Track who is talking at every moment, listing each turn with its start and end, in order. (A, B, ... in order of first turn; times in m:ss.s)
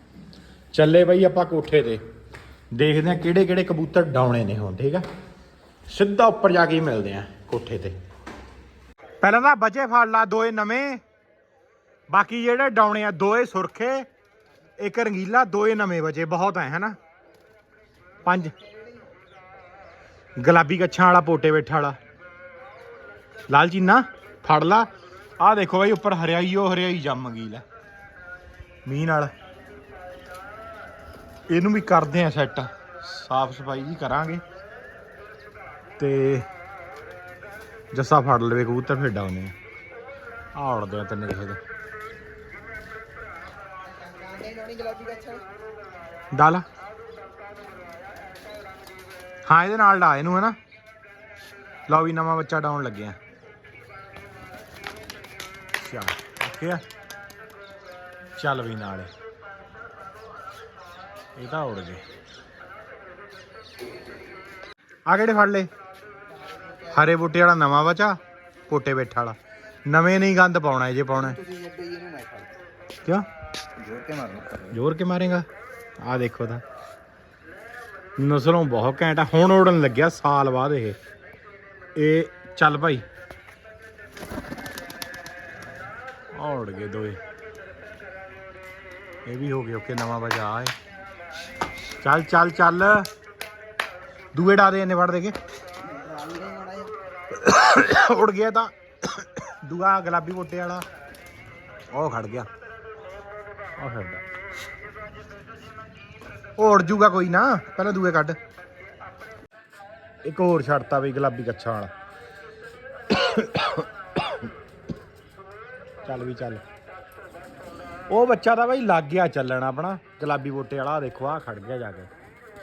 0:00.7-0:02.0 A
0:02.7-0:05.1 A
0:05.9-0:08.0 A
0:09.2-0:11.0 A
0:12.1-0:14.1 A
0:14.8-0:17.0 A
0:18.2-0:18.6 A
0:18.5-0:19.1 B
0:20.4-0:22.0 A
0:23.5-0:27.6 A
0:28.9-0:29.3 A
0:31.5-0:34.4 A
0:36.0-0:36.5 A
0:37.9-0:39.6 A
0:40.6-0:41.6 A
0:43.8-0:45.5 B
0:46.3-0:46.6 A
0:49.5-0:50.6 A
0:51.9-0:53.2 A
0:55.8-0:56.8 A
0:58.4-0:59.1 A
1:01.4-1:02.0 A
1:05.1-1:05.7 A
1:06.4-1:06.9 B
1:06.8-1:11.4 A
1:11.2-1:12.6 B
1:13.8-1:14.7 B
1:14.7-1:15.5 A
1:16.0-1:16.6 A
1:18.2-1:21.0 A
1:22.0-1:23.0 A
1:26.4-1:27.2 A
1:29.3-1:30.8 A
1:32.0-1:33.1 A
1:34.3-1:35.4 A
1:35.8-1:36.9 B
1:37.3-1:40.8 A
1:41.9-1:42.5 A
1:43.8-1:44.2 A
1:46.6-1:48.4 A
1:50.2-1:51.9 A
1:53.1-1:54.5 A
1:56.0-1:56.6 A
1:58.1-2:02.1 A